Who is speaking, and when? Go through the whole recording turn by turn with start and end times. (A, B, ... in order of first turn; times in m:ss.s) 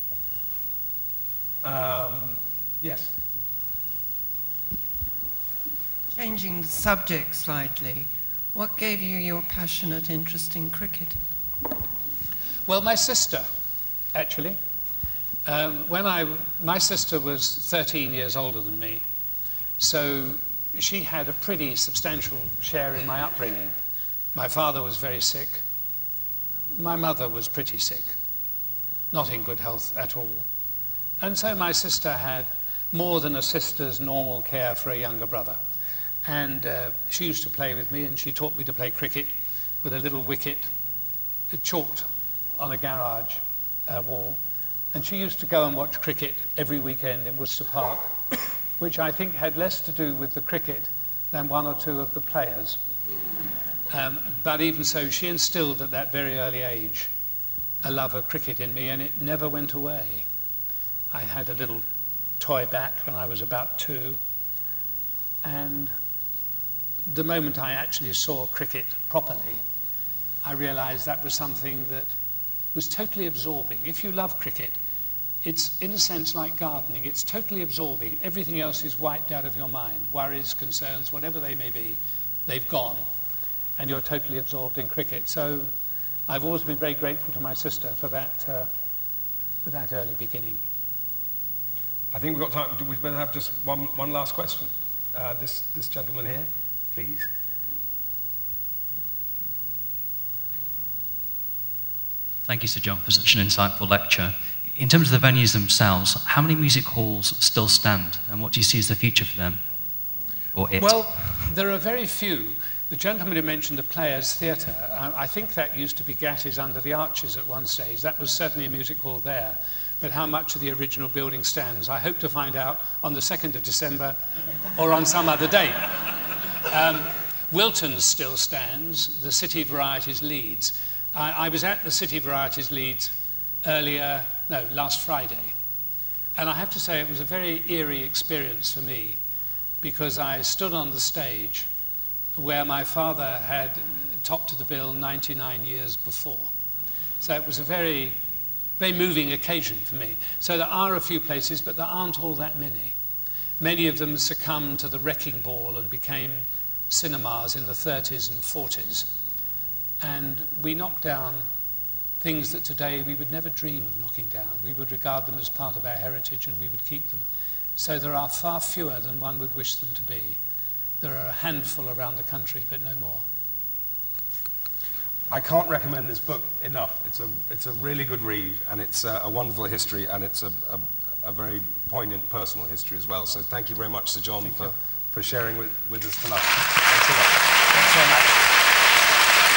0:01.6-0:03.2 A
0:06.2-0:11.2 B
0:12.7-0:13.5 C
0:14.1-0:14.6 C
0:15.5-0:19.0 C
0:19.8-0:23.7 C
0:24.3-0:25.6 C
0:26.8-0:28.2 C
0:29.1-0:30.5 C
0:31.2-0:35.6 C
0:36.2-0:39.3 C
0:39.8-0:40.7 C
0:41.5-0:42.1 C
0:42.6-0:44.4 C
0:44.9-0:48.1 C
0:48.8-0:52.8 C
0:53.9-0:57.1 C
0:57.8-1:00.3 C
1:01.1-1:01.8 C
1:02.4-1:04.2 C
1:05.4-1:05.9 C
1:07.1-1:09.6 C
1:10.4-1:12.1 C
1:12.7-1:14.8 C
1:15.4-1:23.0 C
1:23.8-1:25.7 C
1:26.3-1:28.7 C
1:29.6-1:30.6 C
1:32.1-1:37.3 A
1:42.5-1:49.6 D
1:50.5-1:51.4 D
1:50.8-2:04.2 C
2:04.8-2:15.5 C
2:16.4-2:19.2 C
2:19.8-2:21.7 C
2:22.4-2:26.5 C
2:27.2-2:28.2 C
2:28.8-2:33.0 C
2:33.6-2:39.1 C
2:40.0-2:41.5 C
2:42.2-2:47.3 C
2:47.8-2:50.4 C
2:51.0-2:53.2 C
2:55.3-3:07.4 A
3:04.5-3:04.7 C
3:07.7-3:08.4 C